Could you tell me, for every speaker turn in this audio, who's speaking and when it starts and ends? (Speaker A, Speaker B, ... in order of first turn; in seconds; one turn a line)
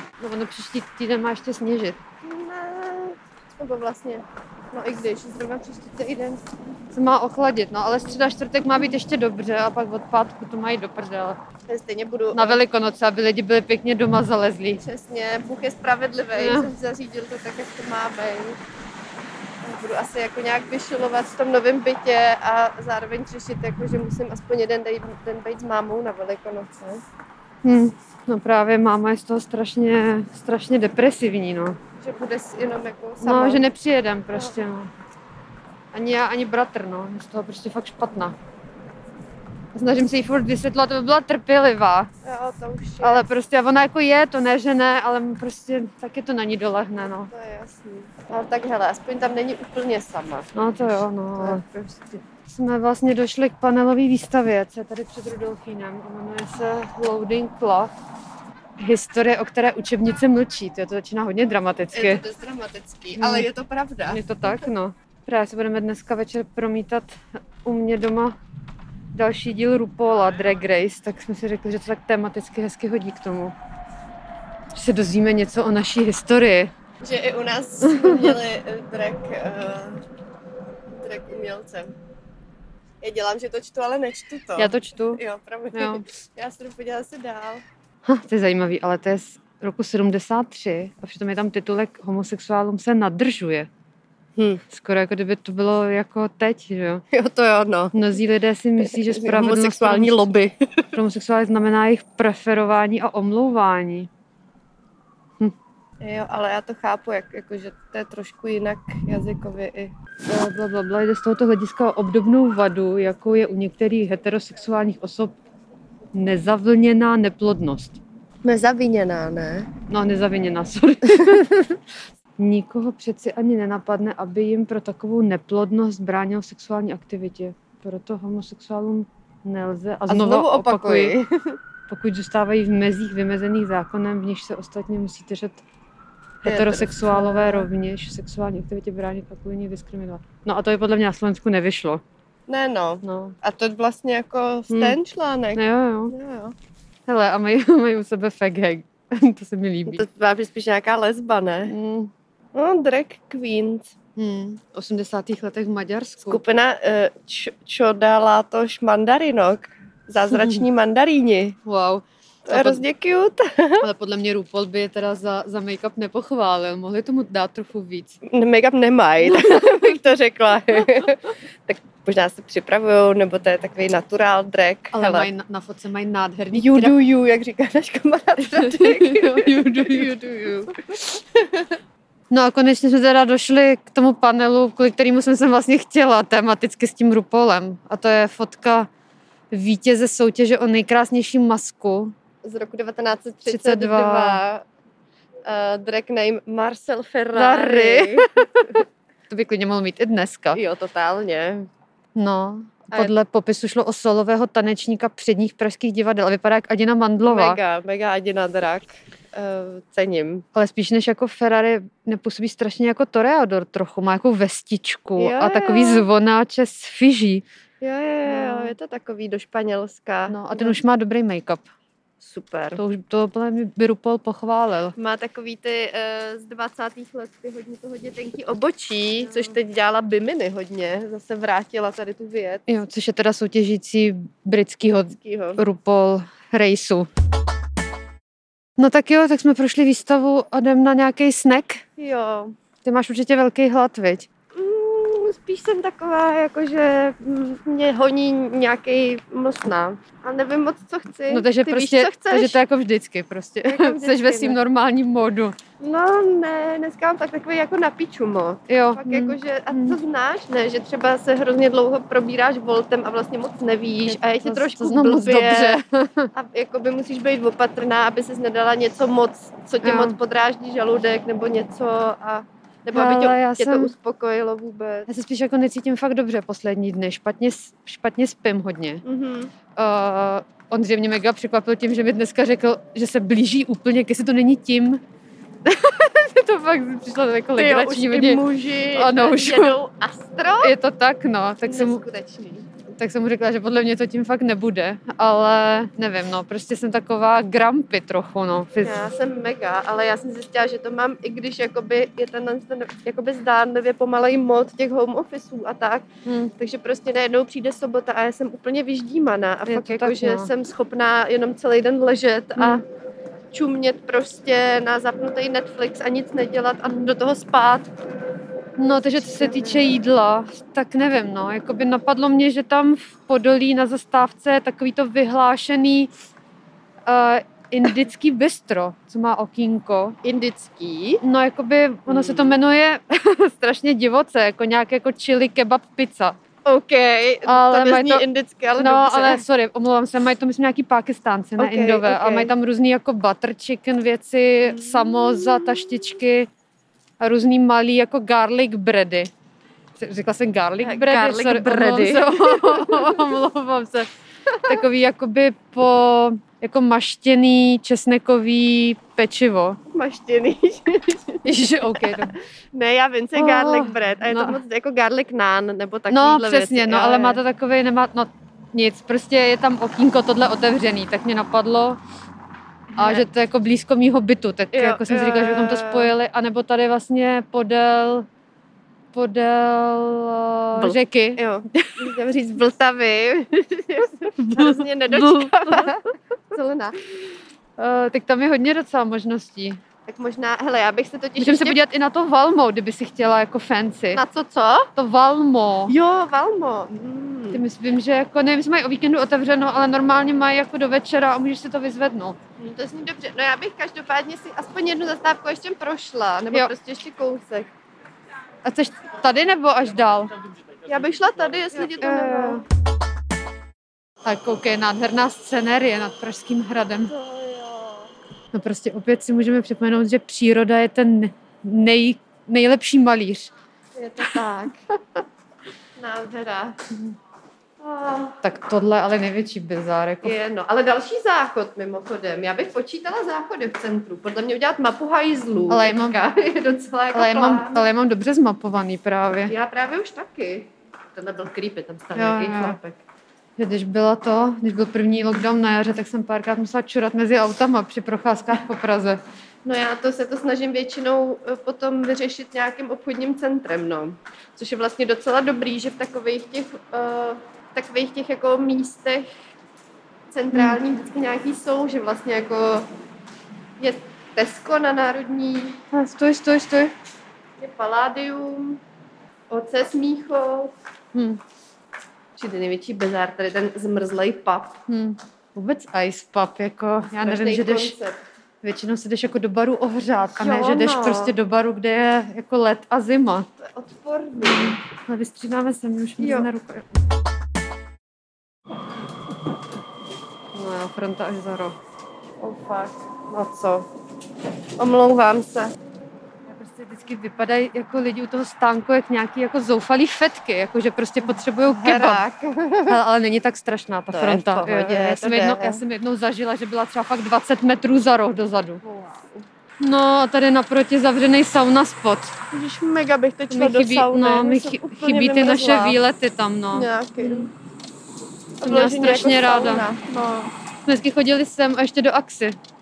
Speaker A: 0.2-2.0
Speaker B: 2.2-6.4
Speaker A: 6.9-11.4
Speaker B: 11.7-12.6
Speaker A: 12.3-14.8
Speaker B: 14.8-18.6
Speaker A: 16.3-16.7
Speaker B: 19.6-27.0
Speaker A: 27.6-31.8
Speaker B: 32.0-33.6
Speaker A: 33.2-34.9
Speaker B: 34.3-34.6
Speaker A: 35.9-38.4
Speaker A: 39.8-42.1
Speaker B: 42.2-43.3
Speaker A: 43.0-47.3
Speaker B: 47.1-50.6
Speaker A: 50.5-51.6
Speaker B: 51.4-52.2
Speaker A: 52.5-57.9
Speaker A: 58.8-62.2
Speaker B: 61.9-64.6
Speaker A: 63.1-63.5
Speaker A: 64.1-68.4
Speaker A: 69.1-73.5
Speaker A: 74.7-76.7
Speaker B: 77.0-80.0
Speaker A: 77.8-78.4
Speaker B: 80.9-81.9
Speaker B: 83.0-87.6
Speaker A: 84.6-85.2
Speaker A: 85.7-86.0
Speaker A: 88.0-93.7
Speaker A: 94.7-97.0
Speaker B: 97.1-98.0
Speaker A: 97.9-100.3
Speaker B: 98.8-100.9
Speaker A: 100.9-104.1
Speaker B: 106.0-109.9
Speaker A: 110.3-115.3
Speaker A: 116.1-118.0
Speaker B: 118.4-119.7
Speaker A: 119.9-121.8
Speaker A: 122.4-131.2
Speaker B: 130.1-131.6
Speaker A: 131.9-135.6
Speaker A: 136.4-142.0
Speaker B: 136.4-137.7
Speaker B: 142.5-146.6
Speaker A: 143.0-143.4
Speaker A: 144.7-145.0
Speaker A: 145.6-146.1
Speaker A: 147.1-150.1
Speaker B: 149.9-151.7
Speaker A: 151.7-152.1
Speaker B: 152.5-153.9
Speaker A: 154.2-156.4
Speaker B: 156.3-161.6
Speaker A: 161.7-162.8
Speaker B: 162.5-163.9
Speaker A: 163.8-168.2
Speaker B: 168.3-175.3
Speaker A: 169.2-170.0
Speaker A: 174.9-176.9
Speaker B: 176.5-181.8
Speaker A: 178.6-180.1
Speaker A: 182.3-188.9
Speaker A: 189.5-192.1
Speaker B: 192.4-194.7
Speaker A: 193.5-194.4
Speaker B: 195.4-198.7
Speaker A: 197.3-198.8
Speaker A: 199.3-200.6
Speaker B: 200.5-201.7
Speaker A: 202.2-207.6
Speaker B: 207.2-210.4
Speaker A: 210.5-217.4
Speaker B: 215.2-216.1
Speaker B: 217.8-220.8
Speaker A: 218.3-218.8
Speaker A: 220.3-221.6
Speaker B: 222.2-222.8
Speaker A: 222.8-224.9
Speaker B: 225.0-232.7
Speaker A: 232.7-237.1
Speaker B: 235.2-235.6
Speaker A: 238.8-241.8
Speaker B: 242.0-242.6
Speaker A: 242.8-244.3
Speaker B: 244.5-252.6
Speaker A: 251.3-255.6
Speaker B: 253.6-254.6
Speaker B: 255.8-265.8
Speaker A: 258.7-260.0
Speaker A: 264.1-266.3
Speaker B: 266.3-275.1
Speaker A: 269.8-270.2
Speaker A: 272.9-273.9
Speaker A: 275.1-279.0
Speaker B: 279.0-279.5
Speaker A: 279.8-285.0
Speaker A: 285.7-289.8
Speaker B: 287.6-290.8
Speaker A: 290.6-292.0
Speaker B: 291.6-292.7
Speaker A: 292.9-299.1
Speaker B: 298.8-306.1
Speaker A: 306.3-306.5
Speaker B: 306.6-312.9
Speaker A: 309.7-310.5
Speaker A: 312.6-312.8
Speaker B: 313.5-317.9
Speaker A: 318.8-326.1
Speaker B: 319.1-319.9
Speaker A: 327.1-330.2
Speaker B: 330.2-331.2
Speaker A: 331.2-336.4
Speaker B: 332.1-332.6
Speaker B: 336.7-339.4
Speaker A: 337.4-346.5
Speaker B: 341.6-342.5
Speaker B: 344.6-346.1
Speaker A: 347.2-349.3
Speaker A: 350.0-354.1
Speaker B: 350.8-353.3
Speaker A: 354.6-359.8
Speaker B: 359.9-367.4
Speaker A: 361.4-362.4
Speaker A: 363.4-364.6
Speaker A: 366.1-372.0
Speaker B: 372.9-373.2
Speaker A: 373.0-378.3
Speaker B: 374.7-376.1
Speaker A: 379.1-382.0
Speaker B: 380.8-386.0
Speaker A: 384.4-386.0
Speaker B: 386.5-387.0
Speaker A: 387.8-389.8
Speaker B: 390.1-391.8
Speaker A: 391.4-394.2
Speaker B: 394.1-394.9
Speaker A: 394.9-395.9
Speaker B: 395.9-397.6
Speaker A: 397.5-402.4
Speaker B: 402.6-407.7
Speaker A: 408.6-410.4
Speaker B: 410.9-412.6
Speaker A: 411.8-412.6
Speaker A: 414.2-417.1
Speaker B: 417.1-418.1
Speaker A: 418.5-423.5
Speaker B: 423.9-424.8
Speaker B: 426.0-426.8
Speaker B: 427.8-428.4
Speaker A: 428.4-430.4
Speaker B: 430.2-437.9
Speaker A: 435.7-436.2
Speaker A: 437.1-439.5
Speaker B: 439.5-443.0
Speaker A: 442.1-442.8
Speaker A: 443.6-449.2
Speaker B: 449.6-459.3
Speaker B: 460.3-462.9
Speaker A: 460.5-460.8
Speaker B: 463.8-465.8
Speaker A: 465.9-466.9
Speaker B: 467.6-468.8
Speaker B: 469.5-470.7
Speaker A: 471.1-471.4
Speaker B: 472.4-474.8
Speaker A: 474.9-478.0
Speaker B: 477.2-478.2
Speaker A: 478.6-483.5
Speaker B: 480.3-481.4
Speaker B: 483.6-484.8
Speaker A: 484.4-486.9
Speaker B: 486.2-486.5
Speaker A: 490.5-491.8
Speaker B: 492.4-493.9
Speaker B: 494.8-495.8
Speaker A: 496.5-502.2
Speaker B: 501.6-503.0
Speaker A: 502.9-508.8
Speaker B: 504.1-505.8
Speaker B: 508.8-509.5
Speaker A: 509.8-512.3
Speaker B: 512.5-516.0
Speaker A: 513.5-517.5
Speaker B: 516.7-517.5
Speaker B: 518.6-520.5
Speaker A: 518.6-519.9
Speaker A: 520.9-522.6